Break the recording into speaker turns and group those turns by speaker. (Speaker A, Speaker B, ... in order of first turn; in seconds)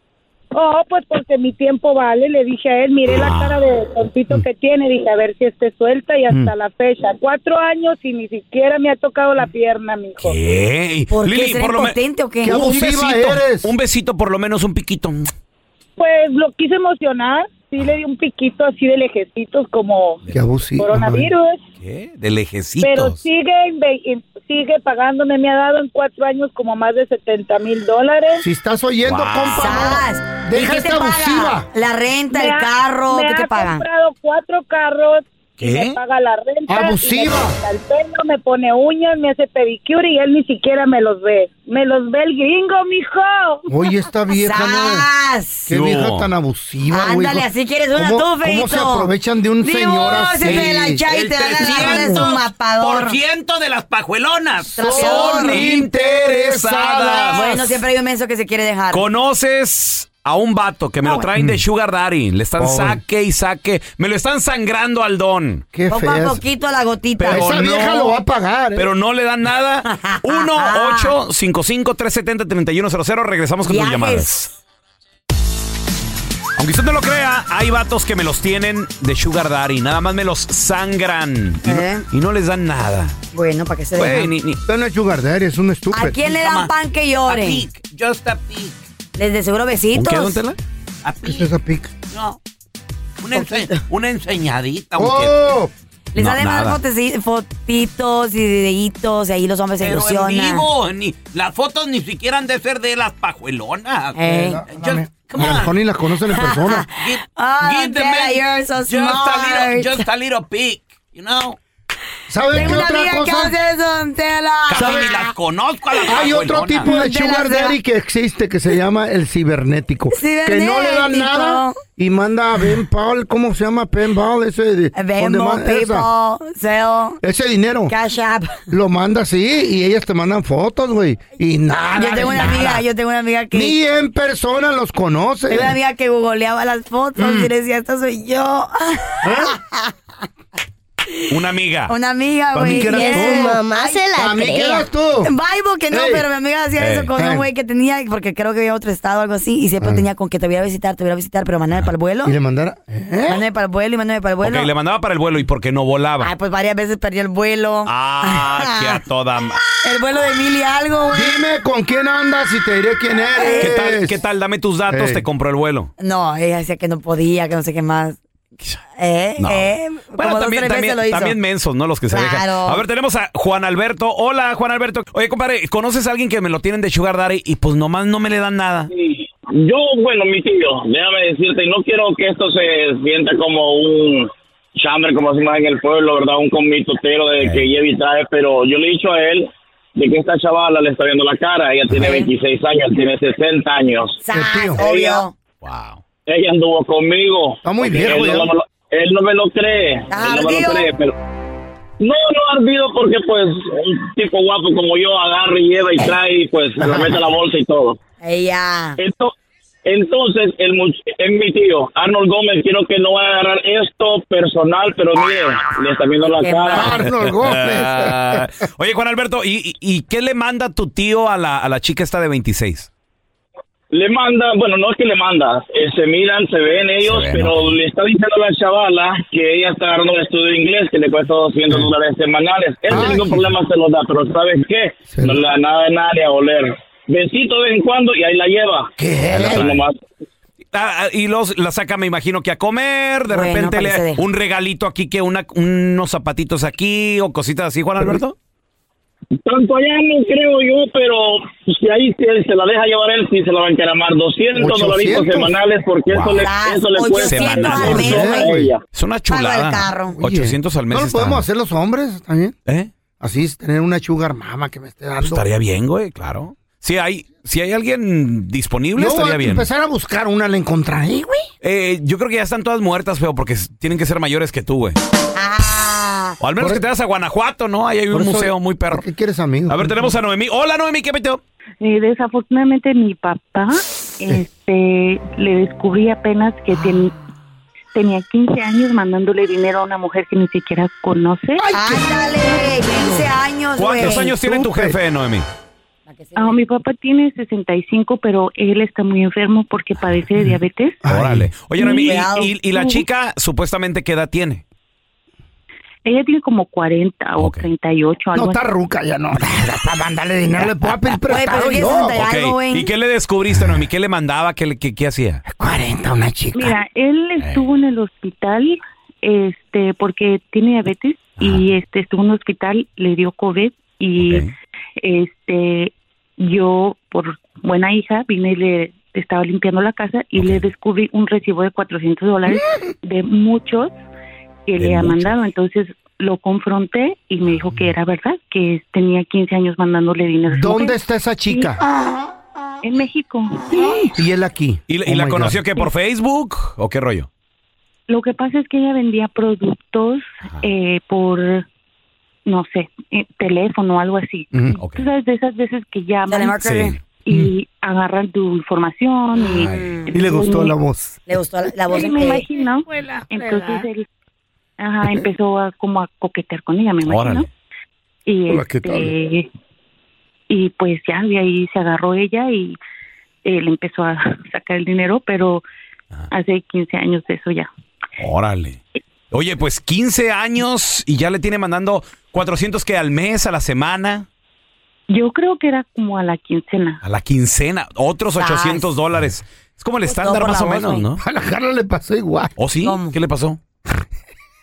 Speaker A: 0.5-10.4, 16.0-20.2, 20.8-21.6, 22.8-28.4, 32.3-43.6
Speaker B: 3.1-3.6, 10.2-15.3, 21.8-23.2, 29.0-30.0, 35.6-36.0, 45.7-46.3, 50.4-57.5, 58.9-65.6, 67.2-68.1, 68.8-74.5, 76.6-83.2, 84.0-84.6, 86.2-86.7, 87.3-88.8, 89.9-91.5, 92.1-92.4, 93.2-95.5, 96.2-96.8, 99.8-105.7, 107.0-111.6, 112.5-112.8, 114.7-116.9, 141.3-141.9, 146.8-147.1, 154.4-156.3, 157.9-159.6, 163.6-165.9, 169.4-178.9, 187.4-187.7, 195.6-196.0, 216.9-222.9, 227.0-227.8, 239.3-239.8, 240.7-248.3, 256.1-256.5, 257.1-258.3, 258.9-261.4, 265.2-269.7, 271.6-275.0, 276.4-279.0, 279.7-281.4, 293.8-295.4, 301.1-304.6, 307.4-307.6, 312.1-315.4, 317.4-317.6, 324.2-324.5, 330.4-330.6, 334.8-335.3, 344.9-347.3, 356.6-356.9, 359.6-360.0, 367.0-367.4, 378.2-384.3, 387.0-391.2, 392.6-393.6
Speaker C: 11.1-12.6, 29.5-33.8, 44.3-45.6, 46.9-49.1, 49.6-53.2, 54.8-55.7, 57.3-59.0, 65.9-67.8, 69.8-71.1, 73.6-74.3, 81.7-82.0, 83.3-84.3, 85.9-87.6, 89.2-90.4, 96.1-100.6, 104.2-104.6, 106.3-110.0, 112.5-115.3, 116.8-117.8, 120.1-121.8, 124.9-127.2, 127.9-128.6, 131.9-133.8, 135.5-139.9, 141.9-144.0, 145.2-152.3, 153.3-154.7, 156.2-159.0, 159.8-161.4, 163.3-163.7, 166.0-168.2, 169.0-171.3, 172.1-172.8, 191.9-192.3, 194.2-195.3, 200.1-200.9, 208.2-209.0, 216.4-217.0, 243.3-244.2, 256.4-258.5, 259.3-260.2, 275.4-276.4, 291.7-294.3, 296.1-296.6, 301.9-302.5, 311.3-312.9, 356.3-356.9, 359.4-360.0, 361.3-362.4, 388.4-388.9, 390.0-391.1, 392.8-393.1
Speaker D: 12.4-13.7, 20.3-21.3, 28.4-31.6, 36.7-37.6, 43.7-45.0, 45.7-51.0, 54.6-57.7, 61.3-61.6, 62.6-63.0, 65.7-66.4, 67.3-68.9, 84.7-86.2, 91.2-91.9, 93.3-93.8, 95.0-95.7, 104.2-106.8, 112.3-113.5, 114.7-115.1, 116.1-126.1, 127.2-127.9, 128.7-132.8, 133.5-135.8, 137.2-137.5, 139.2-139.6, 142.5-143.6, 144.2-145.3, 145.9-146.2, 147.2-147.4, 149.8-150.1, 152.2-153.4, 161.1-164.1, 164.9-165.2, 194.3-194.8, 197.6-198.5, 206.8-207.1, 216.7-218.4, 232.9-233.5, 235.1-235.4, 239.0-239.6, 254.6-255.5, 257.8-258.7, 260.2-262.6, 263.2-265.4, 269.0-271.5, 278.1-280.0, 291.6-293.3, 294.0-295.0, 301.0-301.5, 308.3-312.1, 315.5-316.7, 340.5-341.8, 344.1-345.6, 354.5-354.8, 360.1-361.2, 368.5-369.1, 391.2-392.5
Speaker E: 142.9-144.9
Speaker F: 178.9-194.2, 196.3-201.1, 202.0-208.0, 209.0-209.3, 209.8-216.9, 223.9-240.0, 249.4-258.8
Speaker G: 281.8-287.1, 287.9-291.7, 296.4-301.0, 301.8-303.0, 306.0-308.6, 316.5-324.5, 325.0-333.9, 334.7-341.7, 342.8-344.0, 348.1-351.6, 352.4-360.8, 361.9-364.1, 364.8-367.5, 368.2-369.5, 370.5-372.8, 373.4-375.6, 376.3-377.7, 385.1-387.0